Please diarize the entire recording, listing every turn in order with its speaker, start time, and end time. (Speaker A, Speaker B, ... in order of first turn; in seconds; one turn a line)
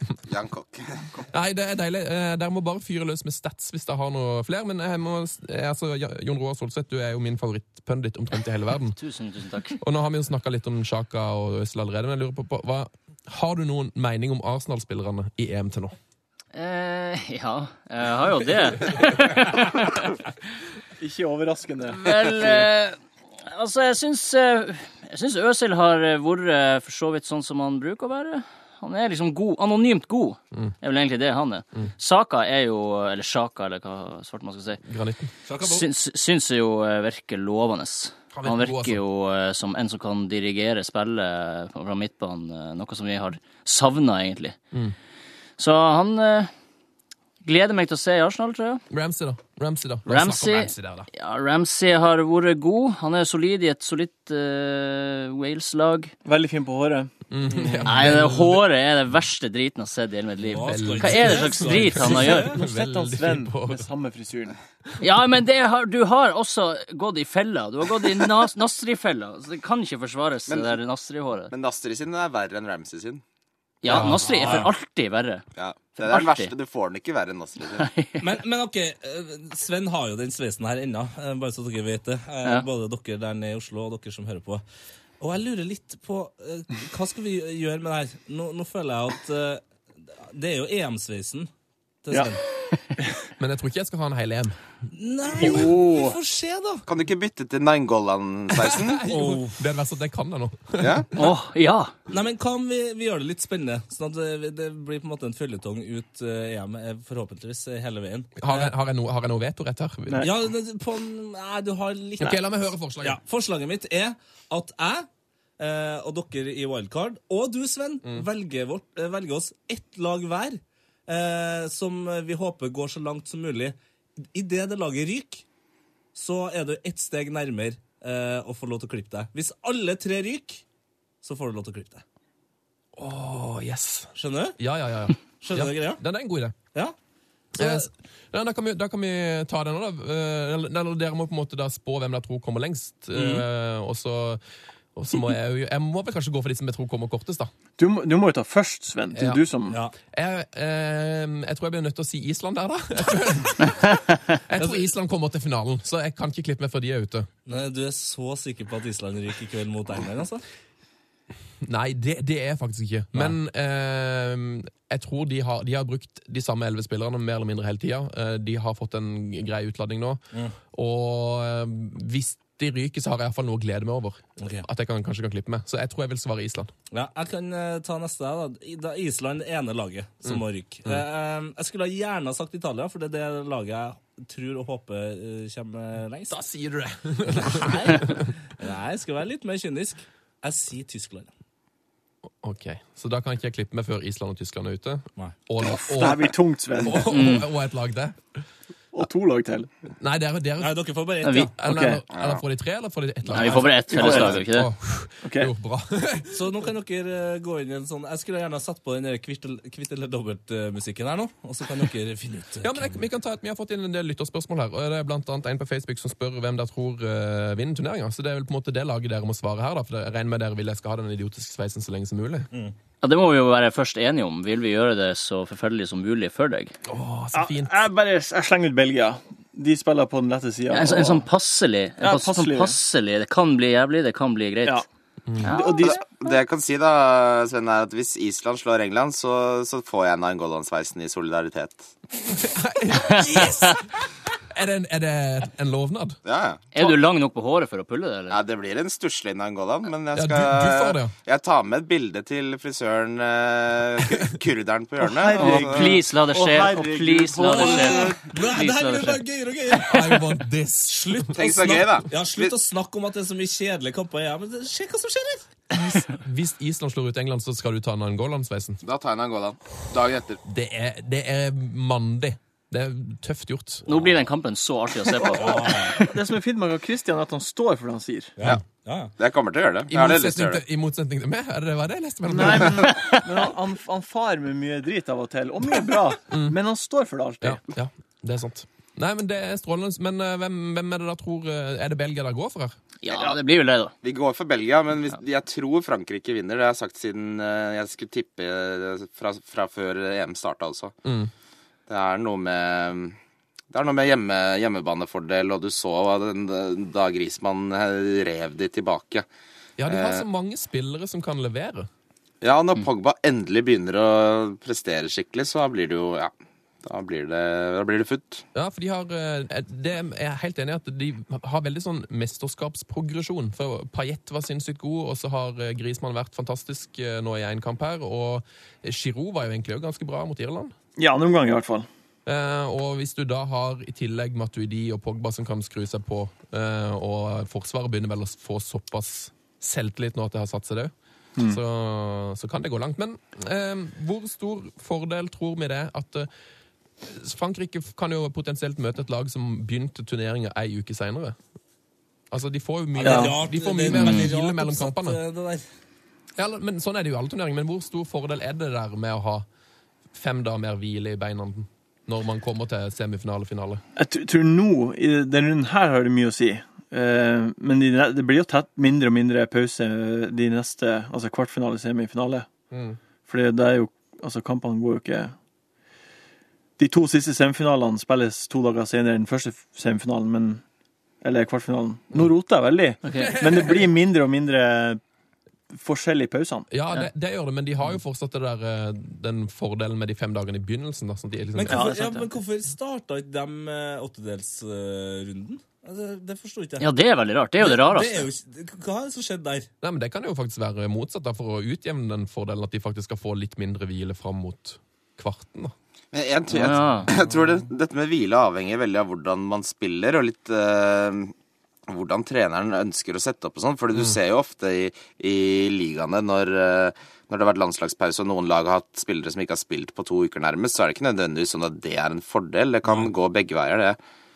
Speaker A: 0.3-1.3
Speaker B: 1.3-9.0
Speaker C: 9.0-9.8
Speaker B: 9.8-16.0
Speaker C: 16.5-20.1
Speaker D: 21.0-22.5
Speaker C: 21.9-34.8
Speaker B: 34.8-35.3
Speaker E: 35.5-35.9
Speaker C: 35.6-44.6
Speaker B: 38.3-39.0
Speaker C: 45.6-46.5
Speaker C: 47.4-48.8
Speaker B: 48.9-51.1
Speaker C: 50.1-56.1
Speaker D: 56.2-57.1
Speaker B: 57.3-58.6
Speaker C: 57.9-62.5
Speaker E: 60.5-62.6
Speaker B: 60.7-63.9
Speaker D: 62.5-64.6
Speaker C: 65.0-71.5
Speaker A: 70.5-70.8
Speaker A: 71.5-73.2
Speaker C: 73.8-75.4
Speaker E: 73.9-74.7
Speaker B: 73.9-74.2
Speaker A: 75.6-77.9
Speaker C: 76.0-76.5
Speaker C: 77.8-78.2
Speaker E: 78.2-84.6
Speaker E: 85.2-89.6
Speaker E: 90.2-91.5
Speaker E: 92.0-92.4
Speaker B: 93.4-94.6
Speaker E: 94.9-96.8
Speaker D: 95.4-96.2
Speaker A: 96.9-99.1
Speaker B: 98.6-101.0
Speaker E: 99.1-99.6
Speaker A: 100.8-101.1
Speaker C: 101.2-101.9
Speaker E: 102.1-108.7
Speaker B: 108.4-110.3
Speaker E: 110.2-112.4
Speaker B: 112.2-113.2
Speaker E: 113.0-115.1
Speaker E: 115.6-123.8
Speaker E: 124.3-125.5
Speaker E: 126.2-130.6
Speaker E: 131.2-132.0
Speaker B: 133.0-136.6
Speaker E: 134.2-134.6
Speaker E: 135.4-136.0
Speaker E: 137.6-137.9
Speaker B: 137.6-144.4
Speaker E: 143.1-143.4
Speaker B: 144.9-147.5
Speaker D: 147.8-149.8
Speaker B: 149.1-149.4
Speaker B: 150.1-157.3
Speaker E: 154.6-154.8
Speaker E: 157.5-160.4
Speaker B: 161.6-170.2
Speaker B: 170.7-176.7
Speaker E: 174.4-174.7
Speaker E: 176.9-186.4
Speaker B: 180.2-181.0
Speaker B: 186.3-188.3
Speaker E: 187.3-191.3
Speaker B: 192.4-198.2
Speaker D: 195.8-197.1
Speaker C: 197.1-197.5
Speaker D: 198.9-199.7
Speaker B: 200.0-200.8
Speaker E: 200.6-201.5
Speaker C: 201.2-201.5
Speaker B: 201.6-206.4
Speaker D: 201.7-202.0
Speaker A: 202.1-202.4
Speaker C: 203.3-204.7
Speaker E: 203.4-203.7
Speaker D: 203.9-204.4
Speaker D: 205.2-205.5
Speaker E: 206.3-213.0
Speaker B: 212.6-222.5
Speaker C: 223.0-226.7
Speaker B: 226.9-227.7
Speaker D: 227.3-231.2
Speaker C: 230.7-234.8
Speaker D: 232.0-232.8
Speaker B: 235.3-235.6
Speaker C: 235.4-235.9
Speaker D: 235.5-236.1
Speaker A: 235.8-241.9
Speaker B: 242.4-246.2
Speaker A: 246.2-246.9
Speaker C: 246.7-248.4
Speaker A: 248.3-256.0
Speaker B: 250.2-251.1
Speaker D: 255.0-258.2
Speaker C: 255.4-259.2
Speaker E: 257.5-260.3
Speaker B: 259.7-261.3
Speaker E: 260.9-265.5
Speaker A: 261.4-262.5
Speaker B: 265.7-268.8
Speaker A: 268.8-270.4
Speaker B: 270.4-274.0
Speaker C: 273.9-275.9
Speaker E: 275.3-276.0
Speaker D: 276.0-278.3
Speaker E: 278.4-279.1
Speaker A: 279.2-280.6
Speaker B: 279.9-282.9
Speaker D: 282.3-287.6
Speaker C: 282.9-283.2
Speaker B: 286.3-286.6
Speaker B: 287.4-292.8
Speaker C: 293.0-293.9
Speaker A: 294.0-300.9
Speaker B: 301.1-301.3
Speaker A: 301.9-303.2
Speaker A: 303.7-309.3
Speaker B: 309.8-311.9
Speaker A: 309.9-310.2
Speaker A: 312.4-316.3
Speaker A: 316.8-318.4
Speaker B: 318.6-330.7
Speaker D: 331.0-331.9
Speaker B: 332.3-346.3
Speaker B: 347.0-351.4
Speaker B: 352.3-355.2
Speaker E: 353.0-355.6
Speaker D: 353.0-353.3
Speaker B: 356.4-359.5
Speaker B: 360.1-363.8
Speaker D: 364.0-372.5
Speaker B: 372.7-373.0
Speaker D: 373.3-375.3
Speaker D: 376.8-380.6
Speaker D: 381.2-385.0
Speaker C: 383.0-383.4
Speaker B: 383.2-383.8
Speaker D: 385.7-386.7
Speaker B: 386.7-391.9
Speaker E: 391.6-396.9
Speaker D: 391.7-392.0
Speaker C: 391.8-392.2
Speaker C: 396.8-398.3
Speaker E: 397.6-399.7
Speaker B: 399.8-405.8
Speaker A: 406.1-411.3
Speaker C: 406.5-407.1
Speaker A: 411.9-424.0
Speaker E: 422.9-423.1